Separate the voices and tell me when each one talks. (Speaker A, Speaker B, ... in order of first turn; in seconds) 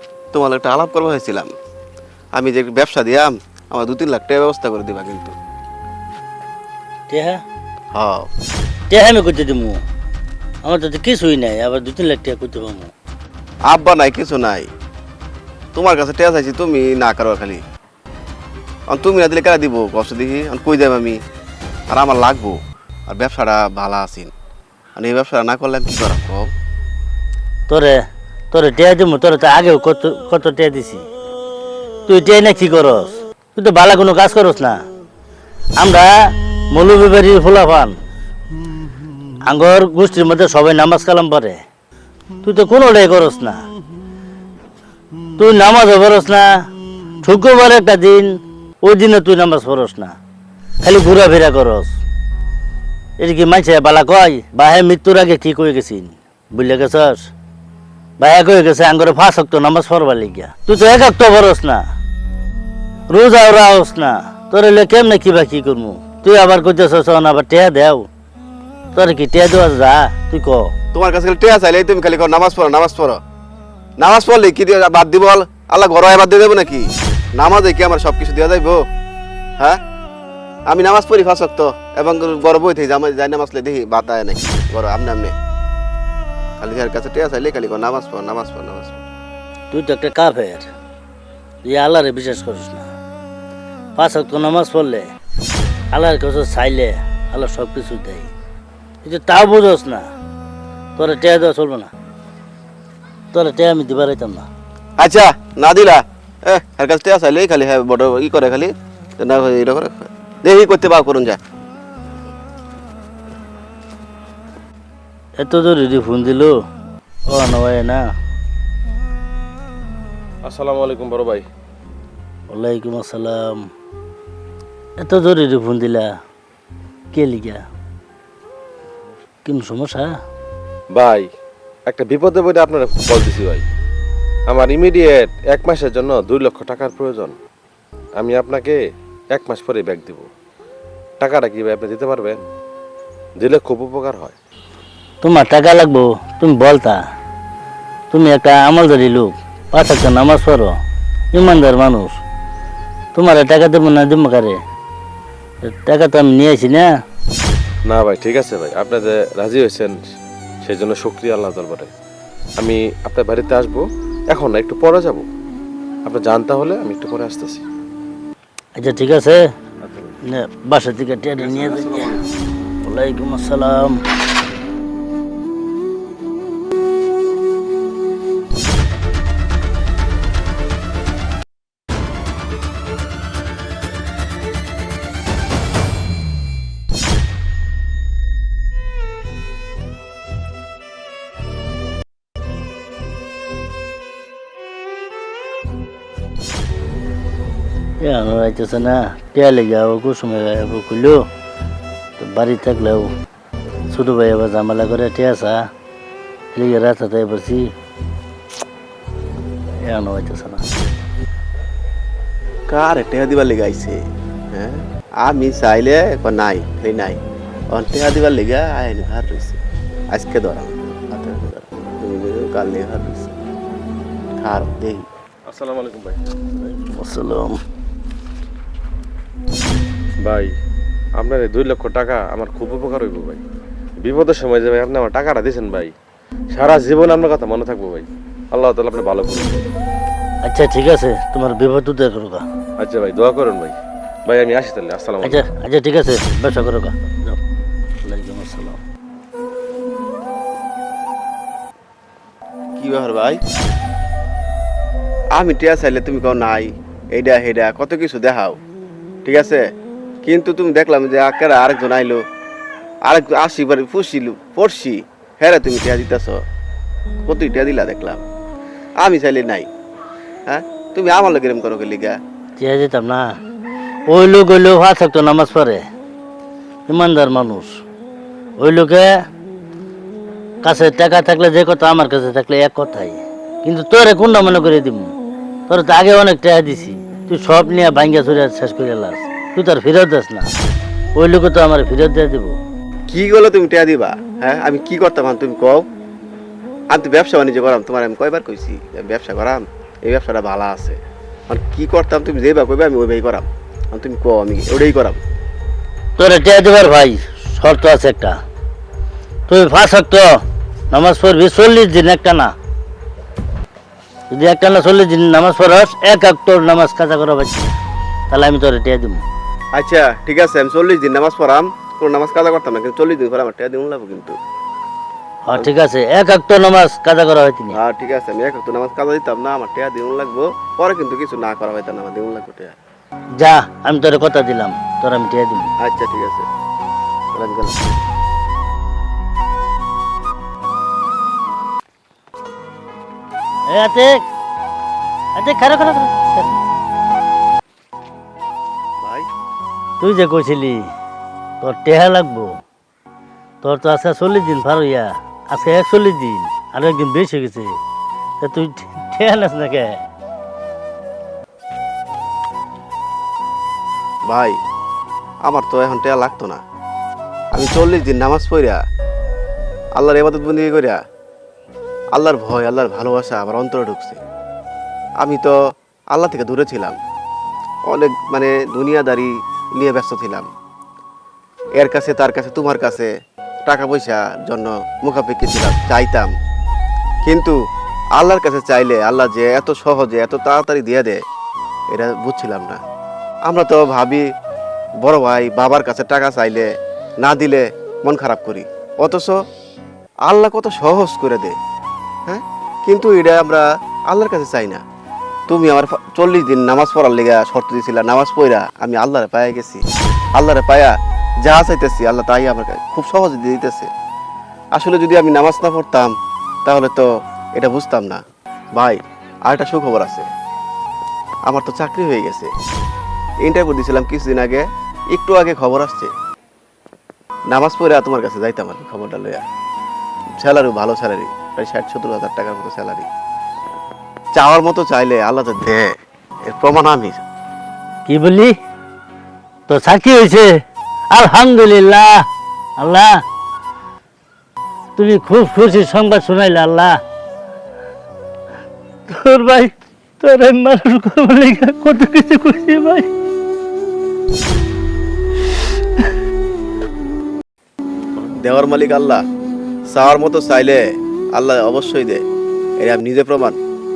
Speaker A: 0.3-1.5, 2.4-5.3, 7.9-8.3, 13.7-14.7, 15.7-17.6, 18.9-21.2, 21.9-24.3, 25.0-26.4, 70.9-73.2, 74.0-78.8, 80.7-85.3, 86.6-89.0, 105.0-111.4, 212.7-214.0, 214.5-217.2, 217.7-219.6, 220.1-223.3, 224.4-225.1, 252.8-253.4, 255.3-258.6, 259.2-259.6, 260.2-262.2, 263.1-266.4, 267.2-268.2, 269.0-269.7, 270.5-272.2, 293.1-295.9, 296.9-305.2, 319.8-324.4, 327.7-332.7, 335.8-336.4, 337.3-337.8, 349.0-349.3, 364.3-364.6, 365.4-366.6, 367.5-368.8, 370.0-371.0, 372.1-374.2, 375.2-375.5, 376.1-377.0, 377.9-380.5, 381.8-383.1, 383.7-386.3, 387.2-387.6, 388.1-391.2, 391.9-392.8, 393.5-394.2, 395.0-396.7, 397.2-399.4, 400.3-401.6, 402.3-404.8, 405.5-413.9, 414.7-416.1, 416.6-418.2, 418.8-420.3, 421.5-422.5, 423.4-426.1, 427.5-429.4, 430.4-433.1, 434.3-435.9, 436.5-437.2, 458.2-459.2, 459.9-462.2, 462.8-463.6
Speaker B: 7.1-7.4, 8.9-9.8, 10.6-12.9, 27.7-28.0, 28.5-31.0, 32.1-34.8, 35.8-37.9, 39.4-41.6, 42.4-43.6, 45.4-46.6, 47.2-50.1, 50.8-51.9, 53.2-57.3, 58.2-61.8, 63.1-68.1, 68.9-70.7, 89.7-90.7, 91.6-92.9, 94.0-95.1, 95.9-98.3, 99.0-100.0, 101.0-101.9, 103.3-104.5, 115.4-116.5, 117.3-118.0, 122.5-123.7, 125.0-126.1, 127.1-127.6, 129.4-130.1, 145.2-147.0, 148.1-150.8, 151.3-152.2, 153.1-154.6, 155.6-156.9, 168.8-169.4, 170.3-172.2, 172.8-174.0, 198.0-201.3, 202.2-203.1, 203.9-205.7, 206.5-207.7, 209.8-210.6, 226.6-227.6, 240.4-242.4, 245.2-247.4, 248.0-248.8, 272.6-273.3, 274.1-275.8, 276.9-277.7, 278.6-279.1, 280.6-285.1, 285.7-290.5, 291.2-292.6, 306.2-308.4, 309.5-310.3, 310.9-312.5, 314.3-317.7, 318.3-319.2, 325.4-327.8, 333.4-335.7, 343.7-344.2, 345.3-346.5, 350.0-350.9, 351.6-352.6, 353.6-357.8, 358.4-360.0, 438.1-438.5, 439.7-440.5, 441.1-442.2, 442.8-443.2, 444.9-447.0, 449.1-453.1
Speaker C: 120.4-121.5, 130.9-131.3, 131.9-133.7, 134.5-137.3, 138.2-138.8, 139.3-140.2, 141.2-142.4, 143.4-144.4, 157.9-160.0, 160.6-161.9, 162.6-165.2, 166.1-167.6, 225.5-226.3, 230.2-230.5, 231.2-233.4, 234.0-235.9, 236.5-239.6, 242.8-245.4